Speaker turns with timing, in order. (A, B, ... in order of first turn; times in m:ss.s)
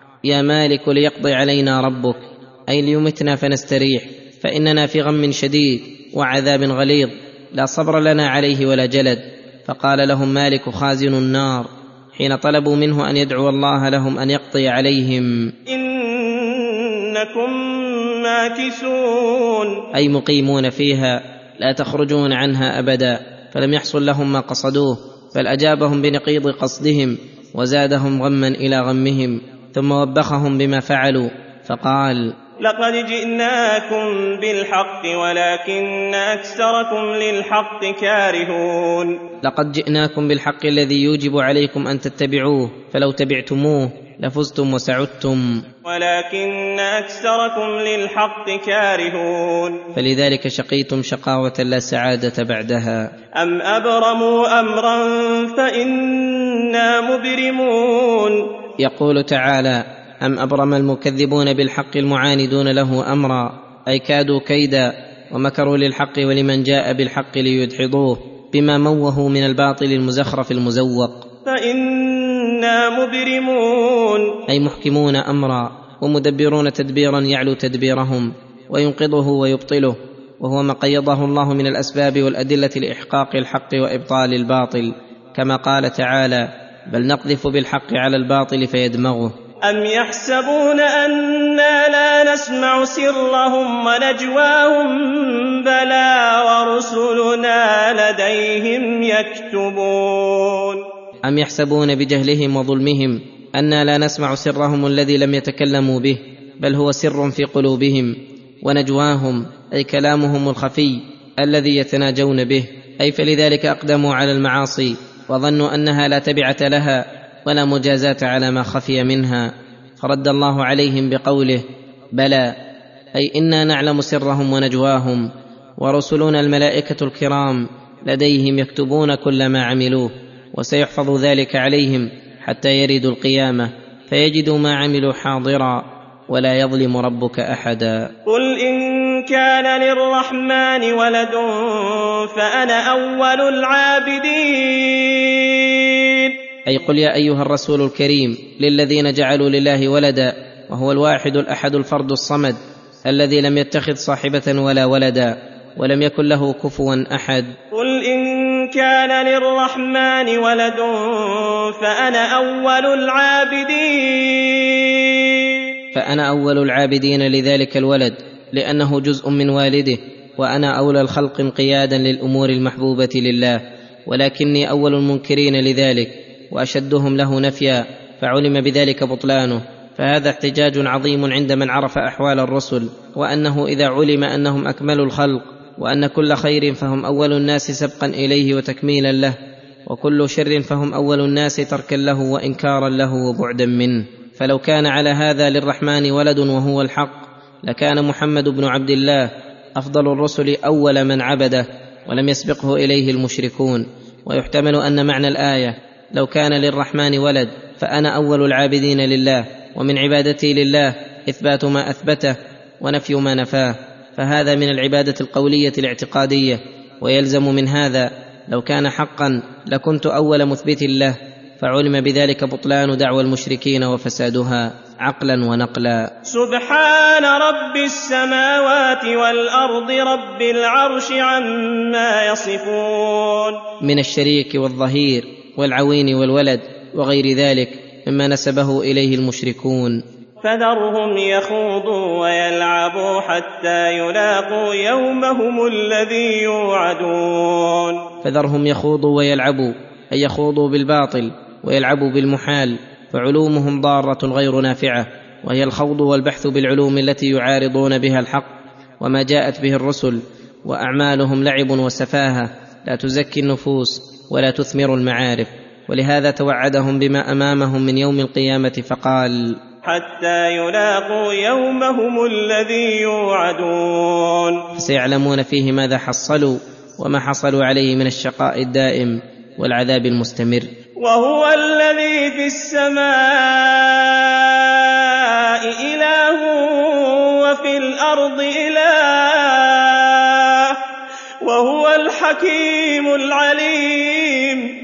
0:00.2-0:15.5 A
0:15.7-0:19.8 B
0:19.9-0:32.3 A
0:32.6-0:39.2 B
0:39.4-0:45.6 A
0:45.8-0:49.8 B
0:49.9-0:53.1 A
0:53.4-0:58.4 B
0:58.8-1:11.2 A
1:11.4-1:14.3 B
1:14.5-1:29.3 A
1:29.6-1:40.8 B
1:41.2-2:02.5 A
2:03.1-2:05.3 A
2:05.8-2:18.1 A
2:18.3-2:26.3 B
2:26.6-2:37.5 A
2:37.7-2:45.6 B
2:45.9-3:09.4 A
3:09.9-3:46.1 A
3:46.2-3:53.6 B
3:53.8-4:00.0 A
4:00.4-4:08.0 B
4:08.2-4:18.5 A
4:19.0-4:29.6 A
4:29.8-4:34.6 B
4:34.8-4:40.7 A
4:41.0-4:50.8 B
4:51.4-4:54.7 B